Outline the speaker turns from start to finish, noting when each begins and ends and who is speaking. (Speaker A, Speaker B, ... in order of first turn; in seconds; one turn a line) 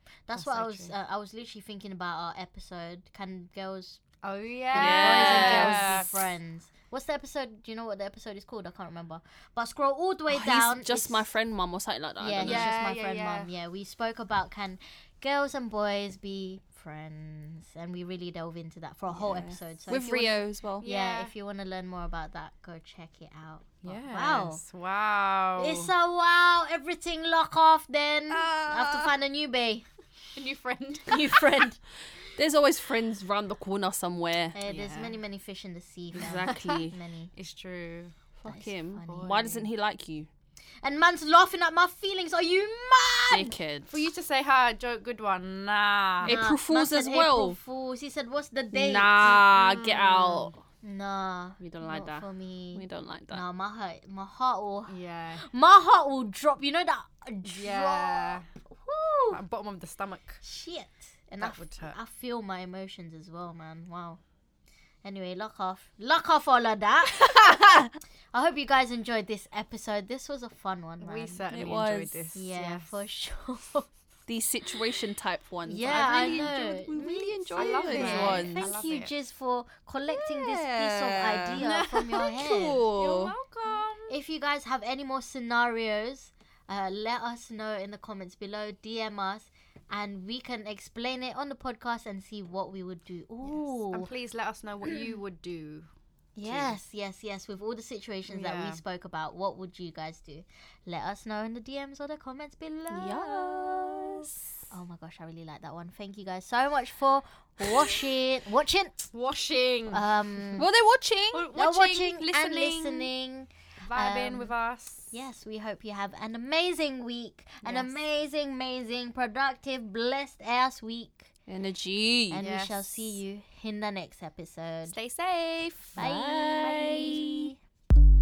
Speaker A: 0.3-4.0
Speaker B: 0.3-0.9
Speaker B: 4.2-6.2
Speaker A: 4.7-11.2
Speaker C: 4.7-5.9
Speaker C: 10.3-12.8
Speaker A: 12.2-24.6
Speaker B: 12.4-13.5
Speaker C: 19.1-20.9
Speaker B: 20.8-21.3
Speaker B: 23.8-25.9
Speaker A: 25.6-29.9
Speaker B: 28.4-29.0
Speaker B: 30.4-31.4
Speaker A: 31.1-31.8
Speaker C: 32.4-34.6
Speaker A: 34.5-37.3
Speaker B: 34.7-35.2
Speaker C: 36.1-37.0
Speaker B: 36.2-38.1
Speaker C: 38.4-40.3
Speaker A: 38.5-39.7
Speaker A: 40.8-43.6
Speaker C: 43.3-43.9
Speaker B: 43.9-46.4
Speaker C: 46.2-47.6
Speaker A: 46.2-49.3
Speaker C: 48.7-50.6
Speaker B: 49.4-50.5
Speaker A: 50.8-59.4
Speaker C: 51.6-53.4
Speaker B: 54.9-55.5
Speaker B: 57.5-58.5
Speaker B: 59.3-60.4
Speaker A: 60.4-64.2
Speaker B: 61.4-62.0
Speaker A: 65.0-67.5
Speaker A: 68.3-71.4
Speaker B: 71.0-73.0
Speaker C: 71.5-72.2
Speaker A: 72.3-73.9
Speaker C: 74.3-78.7
Speaker A: 75.7-82.9
Speaker B: 75.9-76.5
Speaker B: 77.6-79.1
Speaker C: 80.1-81.7
Speaker B: 81.6-82.3
Speaker C: 82.2-83.3
Speaker B: 83.0-84.1
Speaker A: 84.1-94.1
Speaker B: 93.4-95.9
Speaker A: 96.4-103.7
Speaker B: 96.4-96.8
Speaker B: 98.3-98.8
Speaker C: 102.9-104.3
Speaker A: 104.7-109.1
Speaker B: 109.1-110.1
Speaker A: 109.9-110.7
Speaker C: 110.6-111.5
Speaker B: 111.3-113.1
Speaker A: 111.5-114.5
Speaker B: 113.8-115.1
Speaker A: 115.1-121.3
Speaker B: 117.6-118.0
Speaker C: 121.5-122.4
Speaker A: 122.3-125.0
Speaker B: 122.4-123.2
Speaker B: 124.9-126.0
Speaker A: 126.0-127.5
Speaker C: 126.0-127.5